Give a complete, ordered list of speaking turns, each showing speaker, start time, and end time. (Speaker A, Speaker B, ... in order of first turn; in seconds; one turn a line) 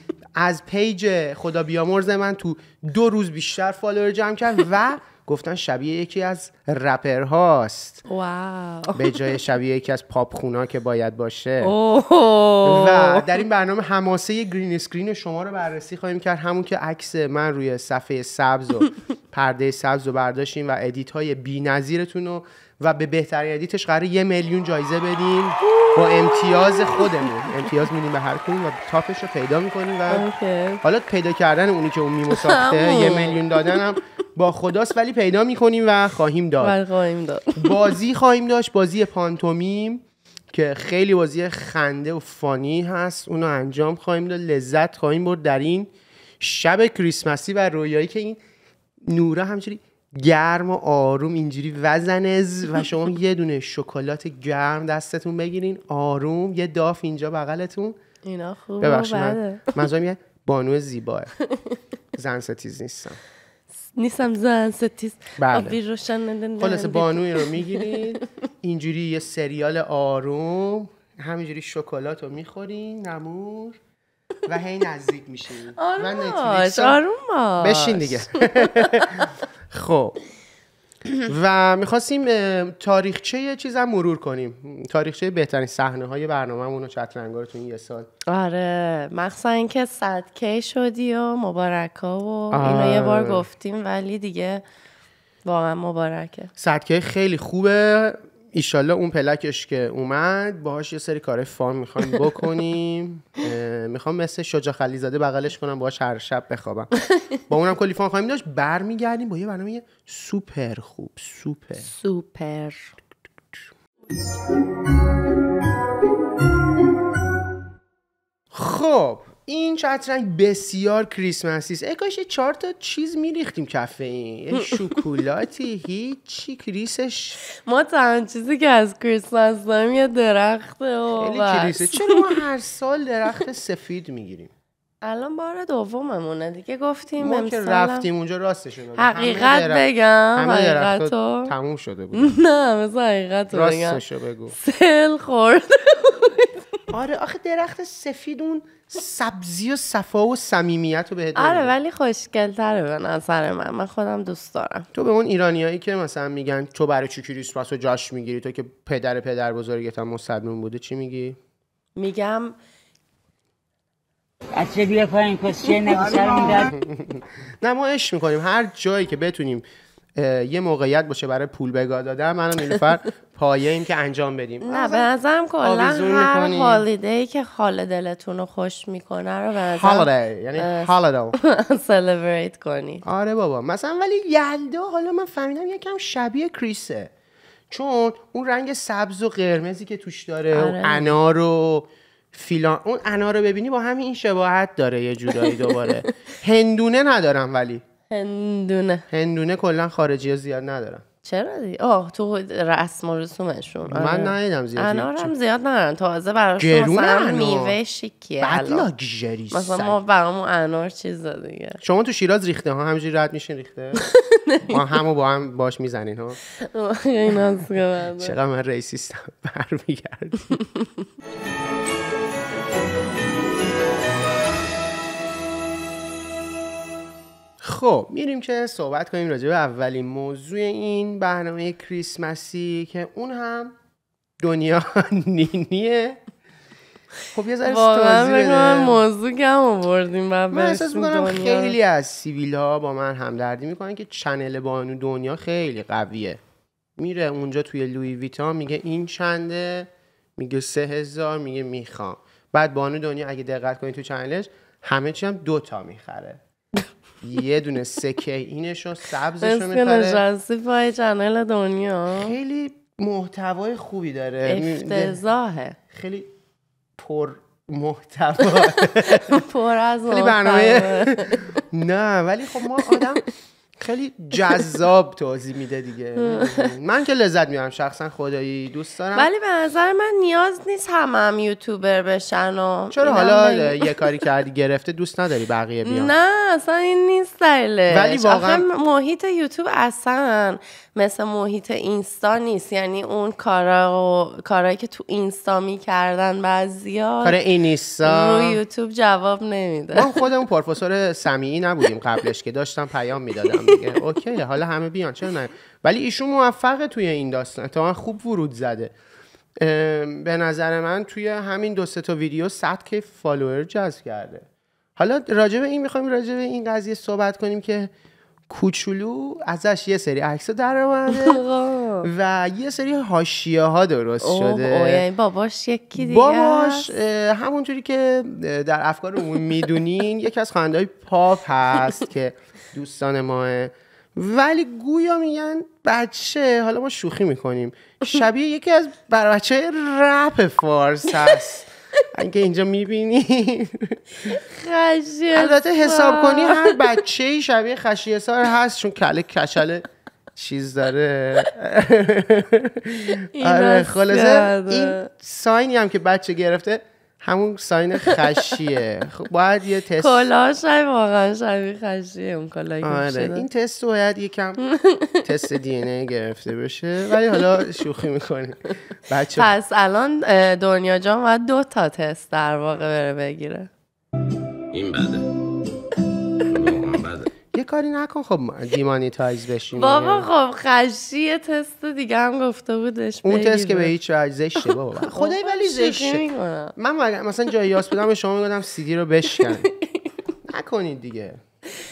Speaker A: 0.4-8.0
Speaker B: 8.1-9.4
Speaker A: 8.9-11.7
Speaker B: 11.6-13.4
Speaker A: 12.7-30.2
Speaker B: 25.6-27.5
Speaker B: 30.1-30.8
Speaker A: 30.8-36.8
Speaker B: 32.3-34.0
Speaker B: 36.6-37.9
Speaker A: 37.6-48.4
Speaker A: 49.1-58.0
Speaker B: 58.2-59.8
Speaker A: 58.8-61.3
Speaker A: 62.2-63.2
Speaker B: 63.9-68.2
Speaker A: 65.4-65.8
Speaker A: 66.6-73.8
Speaker A: 74.5-77.0
Speaker B: 75.8-79.3
Speaker A: 77.6-80.2
Speaker A: 81.3-88.1
Speaker B: 88.3-94.6
Speaker A: 92.5-93.5
Speaker B: 95.5-96.5
Speaker A: 96.6-106.9
Speaker A: 107.5-111.9
Speaker B: 111.8-112.9
Speaker A: 118.5-127.4
Speaker B: 127.5-132.4
Speaker A: 131.2-134.5
Speaker B: 135.0-138.1
Speaker A: 137.2-142.4
Speaker B: 139.0-141.5
Speaker B: 142.1-144.0
Speaker A: 143.5-144.6
Speaker B: 144.5-146.8
Speaker A: 146.9-151.7
Speaker B: 151.4-154.9
Speaker A: 154.9-161.4
Speaker B: 162.0-162.6
Speaker C: 164.6-166.7
Speaker A: 166.2-169.7
Speaker A: 170.2-175.1
Speaker B: 174.6-183.0
Speaker A: 175.6-176.8
Speaker A: 179.8-181.4
Speaker A: 183.0-187.1
Speaker A: 187.7-197.8
Speaker B: 190.5-191.2
Speaker B: 195.4-196.1
Speaker B: 198.1-199.1
Speaker A: 199.1-201.0
Speaker B: 201.2-208.9
Speaker A: 203.9-205.3
Speaker A: 206.6-207.8
Speaker A: 208.4-210.0
Speaker B: 209.5-211.8
Speaker A: 211.8-214.0
Speaker B: 214.0-214.8
Speaker A: 214.7-216.4
Speaker B: 216.6-218.4
Speaker A: 218.2-220.6
Speaker A: 227.6-233.7
Speaker A: 234.4-236.2
Speaker A: 237.3-239.0
Speaker B: 237.7-241.8
Speaker A: 240.5-246.4
Speaker A: 247.0-256.4
Speaker A: 257.2-260.2
Speaker B: 259.4-262.3
Speaker A: 262.1-265.2
Speaker B: 264.4-265.8
Speaker A: 265.9-266.3
Speaker A: 267.0-269.4
Speaker B: 268.5-271.6
Speaker A: 270.1-273.3
Speaker B: 272.9-273.2
Speaker A: 273.8-279.3
Speaker B: 276.2-276.7
Speaker B: 279.1-284.2
Speaker A: 282.9-286.1
Speaker B: 285.9-297.4
Speaker A: 287.9-288.7
Speaker A: 297.2-298.6
Speaker B: 298.0-300.2
Speaker A: 299.9-308.9
Speaker B: 303.5-304.0
Speaker A: 309.6-314.5
Speaker A: 315.0-317.9
Speaker A: 318.5-321.4
Speaker B: 321.1-322.1
Speaker A: 322.0-325.0
Speaker B: 324.2-326.9
Speaker A: 325.9-344.4
Speaker B: 341.2-341.5
Speaker B: 344.3-346.8
Speaker A: 345.3-360.3
Speaker B: 353.1-355.1
Speaker B: 360.0-363.4
Speaker A: 362.8-364.6
Speaker B: 364.6-365.2
Speaker A: 365.2-369.5
Speaker B: 369.3-373.7
Speaker C: 374.7-375.3
Speaker C: 376.5-377.3
Speaker A: 377.5-380.3
Speaker B: 379.8-383.9
Speaker A: 383.2-386.2
Speaker B: 385.0-386.8
Speaker A: 386.8-389.7
Speaker B: 389.4-390.0
Speaker A: 390.5-391.4